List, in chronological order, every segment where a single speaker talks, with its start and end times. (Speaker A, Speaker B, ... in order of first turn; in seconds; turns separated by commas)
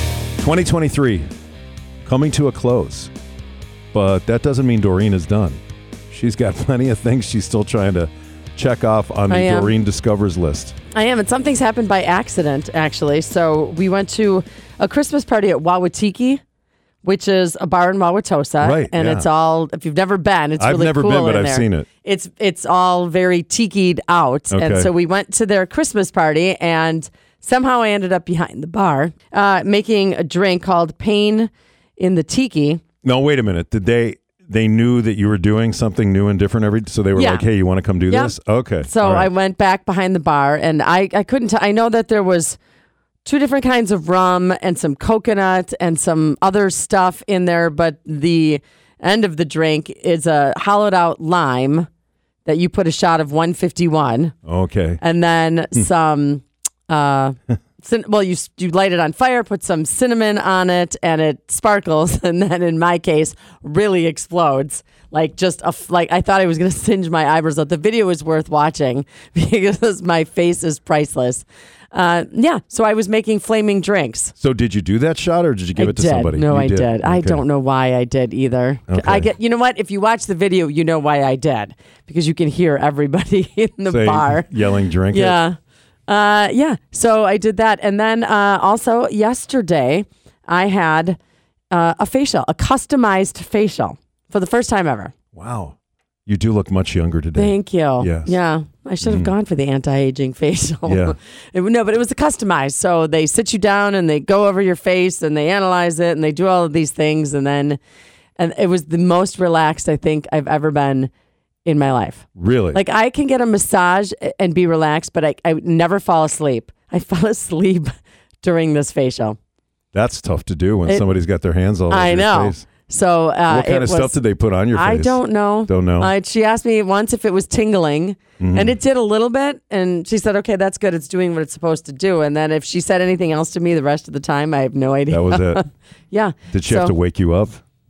Speaker A: 0.4-1.2, Speaker A: 2.1-3.1, Speaker A: 3.9-10.8, Speaker B: 9.3-9.7, Speaker B: 10.9-16.4, Speaker B: 17.0-32.8, Speaker A: 18.6-19.3, Speaker A: 20.6-21.9, Speaker A: 24.5-24.9, Speaker A: 33.0-39.3, Speaker B: 37.2-37.5, Speaker B: 38.1-42.6, Speaker B: 43.2-51.9, Speaker B: 52.5-54.4, Speaker A: 54.5-55.0, Speaker B: 55.0-74.3, Speaker A: 74.4-77.4, Speaker B: 75.8-84.5, Speaker A: 78.9-79.3, Speaker A: 83.9-85.4, Speaker B: 85.1-85.6, Speaker B: 86.1-91.2, Speaker B: 91.7-95.1, Speaker A: 95.3-95.8, Speaker A: 96.3-98.3, Speaker B: 97.3-107.8, Speaker A: 99.0-99.3, Speaker A: 100.9-101.2, Speaker B: 108.4-111.1, Speaker B: 111.7-119.4, Speaker A: 112.4-112.8, Speaker A: 119.9-122.7, Speaker B: 121.9-124.2, Speaker A: 123.5-126.1, Speaker B: 124.7-136.9, Speaker A: 128.4-128.8, Speaker A: 135.1-135.6, Speaker A: 136.5-137.6